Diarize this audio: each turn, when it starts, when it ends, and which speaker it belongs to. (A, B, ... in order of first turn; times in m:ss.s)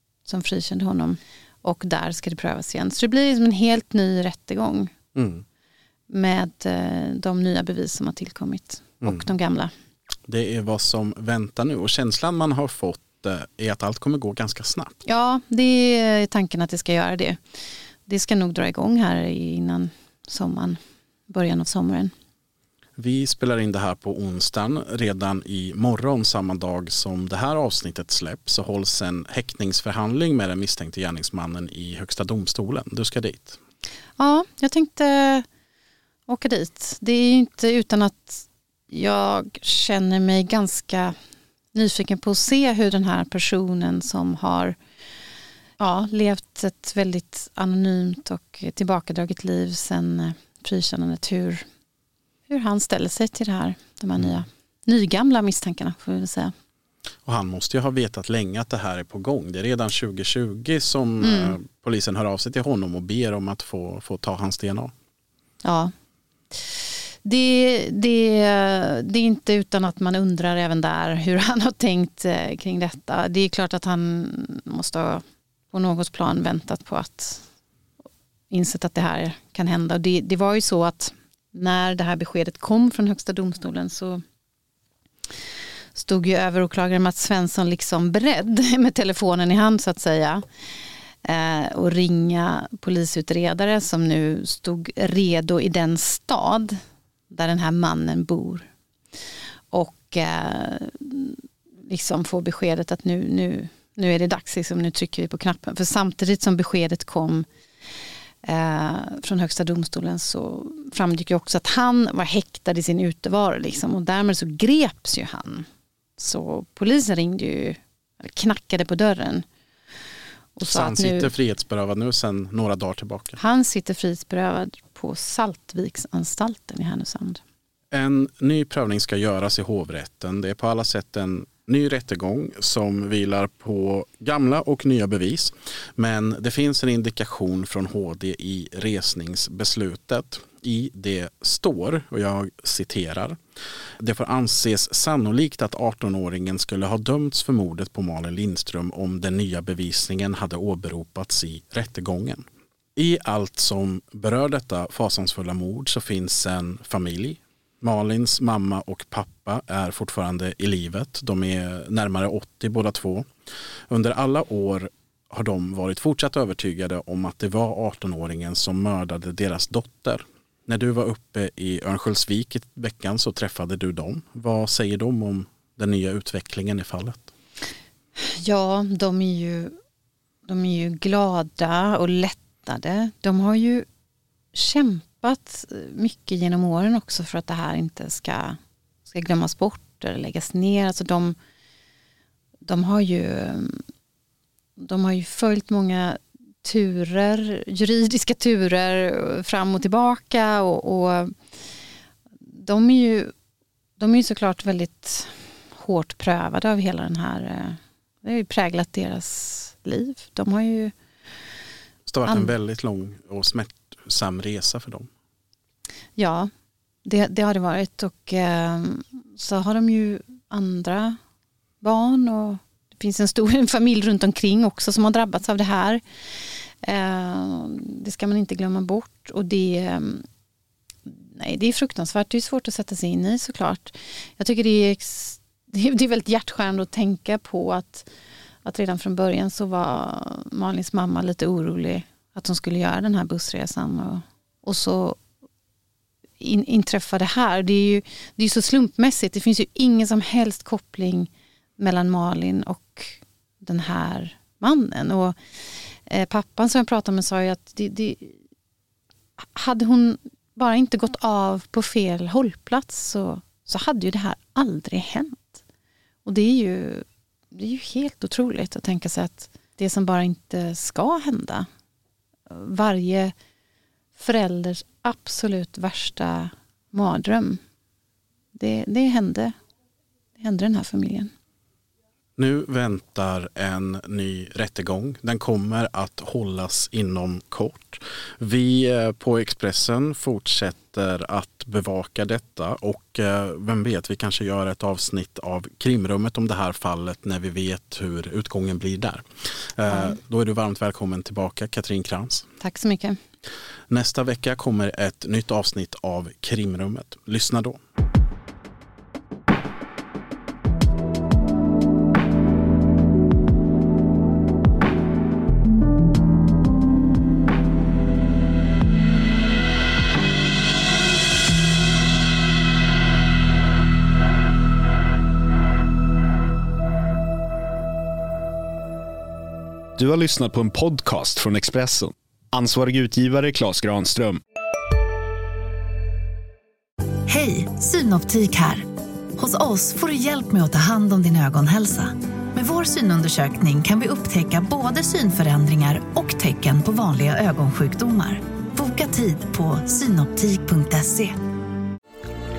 0:00.2-0:04.9 A
0:05.1-0:05.4 B
0:06.1-0:09.7 A
0:09.0-0:09.3 B
0:10.3-0:15.0 B
0:15.0-0:17.4 A
0:18.0-0:22.1 A
0:23.0-0:33.6 B
0:34.2-0:35.4 A
0:36.3-0:41.2 A
0:41.7-0:44.8 A
0:45.8-0:51.6 A
0:52.5-0:56.5 A
0:57.2-1:04.9 B
1:01.2-1:01.6 A
1:05.6-1:05.9 A
1:06.5-1:17.4 A
1:18.5-1:24.2 A
1:25.9-1:30.4 A
1:31.2-1:38.7 A
1:39.7-1:47.5 A
1:48.4-1:59.4 A
2:00.6-2:01.3 A
2:00.6-2:03.4 B
2:03.4-2:07.4 A
2:07.9-2:23.4 B
2:24.0-2:43.3 B
2:43.9-2:57.3 B
2:58.3-2:59.7 A
3:00.5-3:03.9 A
3:04.5-3:11.4 A
3:12.6-3:13.8 A
3:14.8-3:21.3 A
3:22.5-3:23.3 A
3:24.0-3:30.9 A
3:32.0-3:35.1 B
3:36.2-3:36.5 A
3:37.0-3:41.2 A
3:41.8-3:50.2 A
3:51.1-3:58.1 A
3:58.6-4:05.2 A
4:06.4-4:15.4 A
4:16.0-4:18.4 A
4:19.6-4:25.6 A
4:26.2-4:31.7 A
4:32.5-4:33.3 A
4:34.2-4:37.6 A
4:38.5-4:39.5 A
4:40.4-4:41.3 A
4:42.4-5:02.5 B
4:59.9-5:00.2 A
5:02.6-5:03.2 A
5:03.9-5:07.8 B
5:30.0-5:34.4 C
5:37.3-5:38.8 D
5:39.4-5:51.4 D